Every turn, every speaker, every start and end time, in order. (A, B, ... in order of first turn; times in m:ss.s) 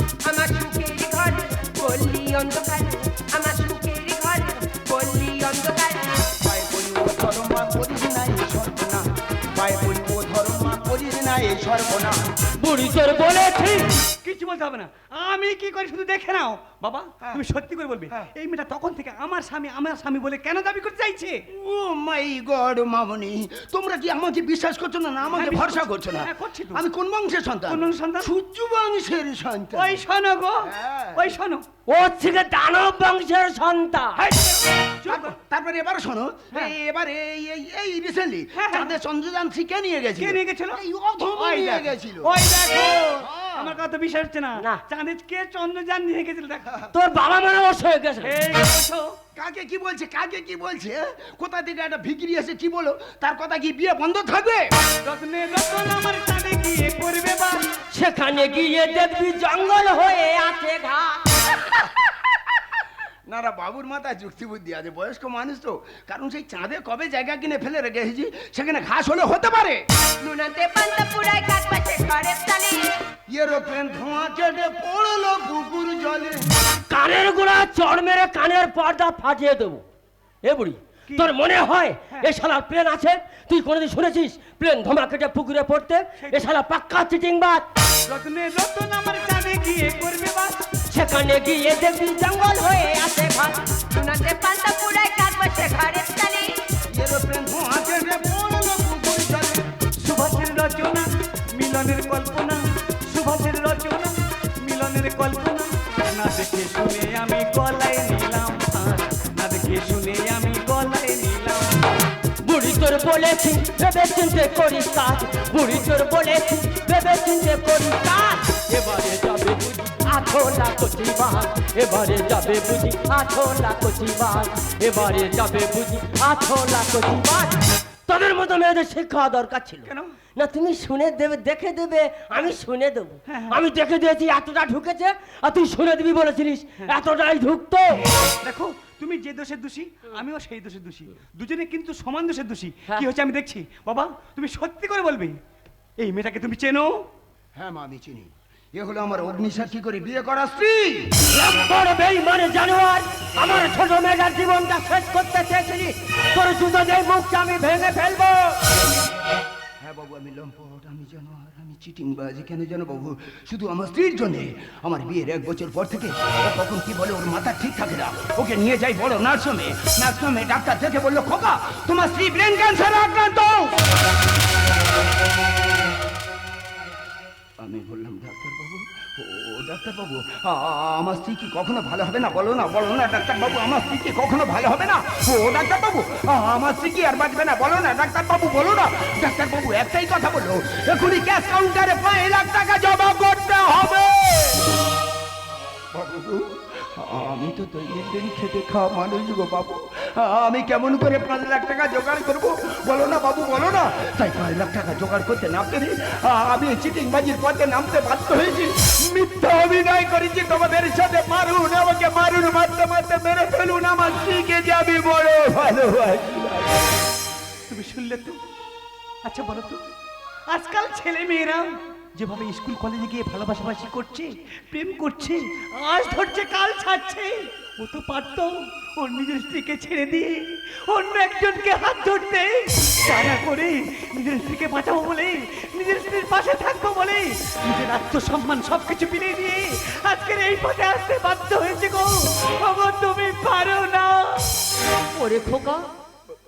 0:00.2-0:06.2 A
0:06.4-0:12.3 B
0:12.6-0:13.9 C
0:14.2-0:21.4 D
0:21.5-0:30.0 B
0:25.2-0:26.8 D
0:27.7-0:28.3 D
0:29.7-0:31.6 D
0:30.6-0:31.3 B
0:31.9-0:34.2 C
0:34.2-0:35.3 D
0:35.0-0:43.7 B
0:38.6-0:38.9 D
0:40.2-0:40.8 D
0:41.3-0:46.8 D
0:46.9-0:48.4 C
0:48.2-0:49.2 D
0:49.4-0:54.7 B
0:55.0-0:57.6 D
0:57.9-1:01.2 C
1:03.3-1:09.8 B
1:10.2-1:12.9 A
1:13.3-1:16.4 B
1:16.9-1:19.8 C
1:20.4-1:27.7 C
1:28.1-1:30.6 D
1:30.9-1:33.6 C
1:33.9-1:36.5 A
1:36.9-1:39.6 B
1:40.0-1:51.8 D
1:52.4-2:18.0 C
2:09.9-2:10.1 D
2:13.3-2:13.6 D
2:18.4-2:25.4 D
2:26.0-2:27.0 D
2:27.6-2:31.1 B
2:31.3-2:38.7 C
2:39.8-2:53.7 B
2:57.6-3:14.7 B
3:15.9-3:36.8 B
3:37.7-3:38.4 D
3:39.2-3:39.8 D
3:40.5-4:04.6 D
4:05.2-4:05.8 C